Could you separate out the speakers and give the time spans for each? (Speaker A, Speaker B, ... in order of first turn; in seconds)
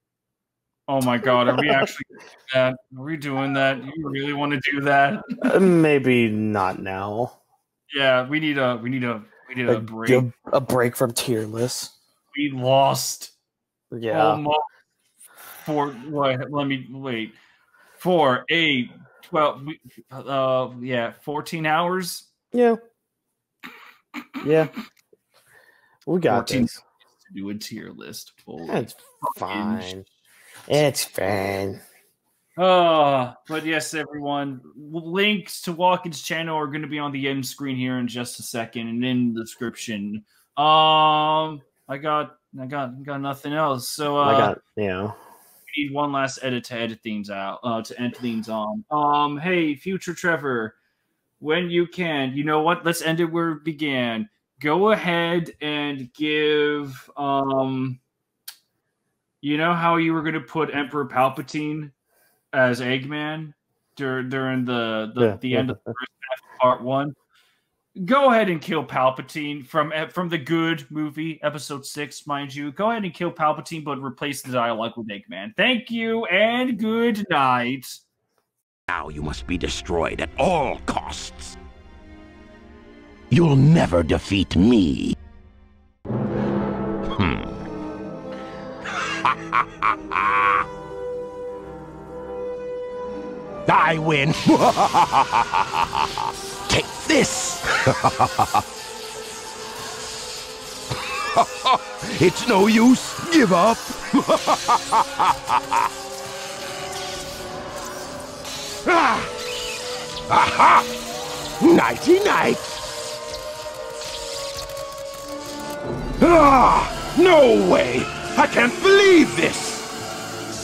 Speaker A: 0.9-5.6, 7.9-10.2, 12.3-13.3, 14.1-14.6, 15.6-17.4, 18.0-22.3, 26.3-29.9, 32.6-44.5, 45.7-50.7, 51.4-58.0, 59.4-61.9, 62.5-67.1, 68.0-78.0
Speaker B: 1.2-1.8, 5.4-7.4, 9.7-11.9, 13.9-14.4, 22.5-22.8, 24.4-24.7, 26.1-26.8, 28.6-30.0, 30.7-31.8, 44.2-45.1, 65.2-65.8
Speaker C: 78.9-81.6, 83.3-85.2, 87.1-87.5, 89.2-90.6, 93.7-96.1, 96.7-98.6, 101.2-105.9, 108.8-109.3, 110.3-110.9, 111.6-112.8, 116.2-119.9